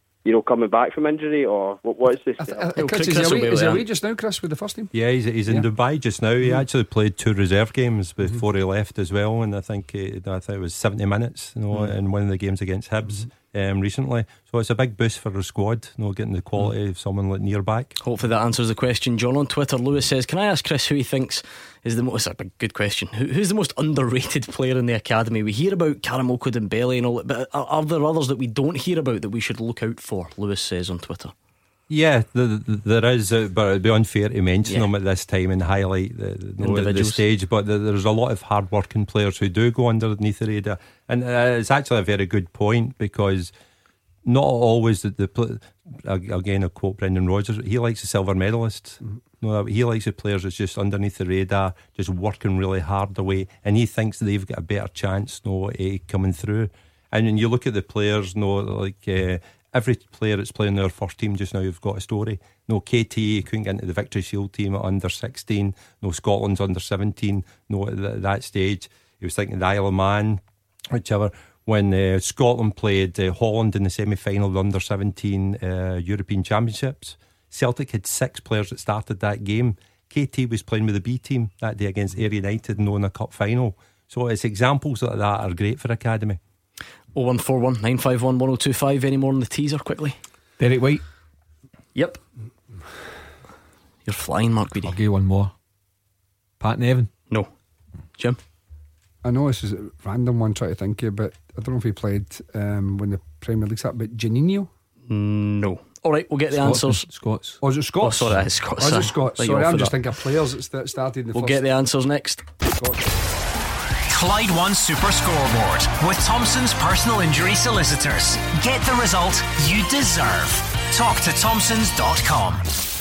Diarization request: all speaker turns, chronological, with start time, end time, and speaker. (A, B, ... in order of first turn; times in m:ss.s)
0:00.2-0:02.6 A
0:02.4-0:04.9 B
0:02.8-0:03.8 C
0:04.9-0:17.9 D
0:18.0-0:31.3 C
0:31.9-0:43.5 D
0:34.6-0:34.9 C
0:36.6-0:37.2 C
0:44.2-1:26.4 D
1:27.1-1:30.2 C
1:30.6-1:31.0 E
1:31.9-1:32.2 C
1:34.0-1:35.0 C
1:34.8-1:35.5 E
1:36.6-1:37.1 E
1:39.2-1:44.7 B
1:45.1-1:47.1 C
1:46.5-1:47.6 E
1:47.6-1:51.6 B
1:48.0-1:50.0 C
1:51.3-1:52.4 C
1:52.6-1:53.0 B
1:54.1-2:02.6 F